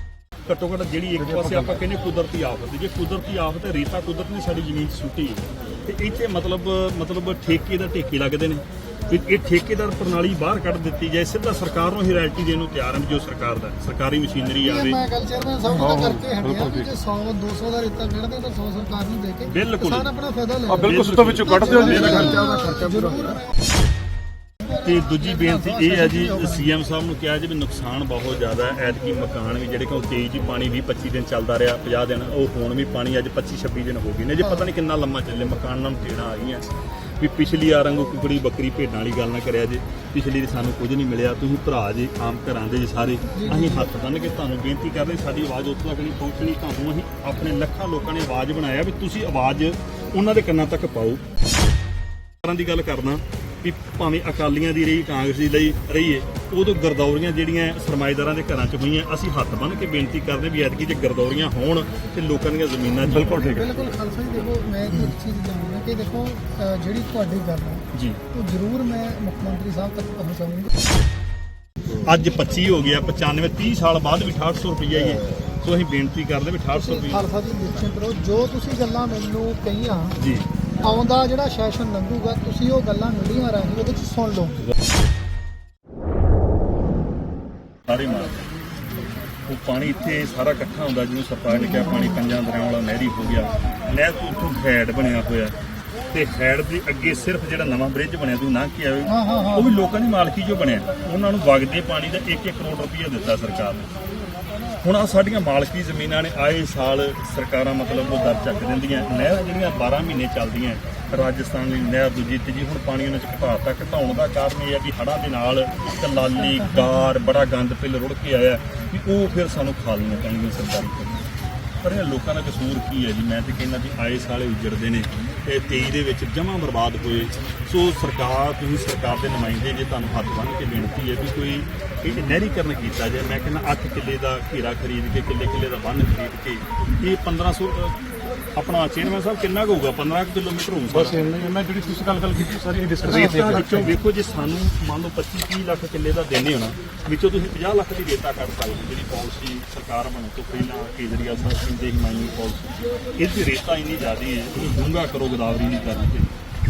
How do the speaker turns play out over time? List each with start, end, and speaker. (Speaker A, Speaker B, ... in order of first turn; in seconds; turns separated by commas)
Speaker A: 0.5-15.0, Speaker B: 1.2-1.7, Speaker C: 14.6-23.4, Speaker B: 15.7-16.9, Speaker A: 19.4-20.1, Speaker B: 20.7-23.4, Speaker A: 20.8-22.4, Speaker C: 24.7-26.7, Speaker A: 24.8-51.2, Speaker C: 34.4-34.7, Speaker C: 43.3-43.9, Speaker A: 52.4-63.5, Speaker B: 63.0-63.7, Speaker C: 63.5-70.7, Speaker A: 67.9-68.2, Speaker A: 71.9-77.3, Speaker C: 76.7-80.2, Speaker A: 80.2-80.5, Speaker C: 80.8-84.6, Speaker A: 87.9-88.5, Speaker A: 89.4-95.5, Speaker C: 91.5-92.2, Speaker A: 96.1-103.8, Speaker C: 99.1-99.7, Speaker A: 104.8-121.3, Speaker C: 116.3-117.1, Speaker A: 121.8-138.0, Speaker A: 138.6-141.2, Speaker B: 140.9-143.9, Speaker A: 143.0-156.3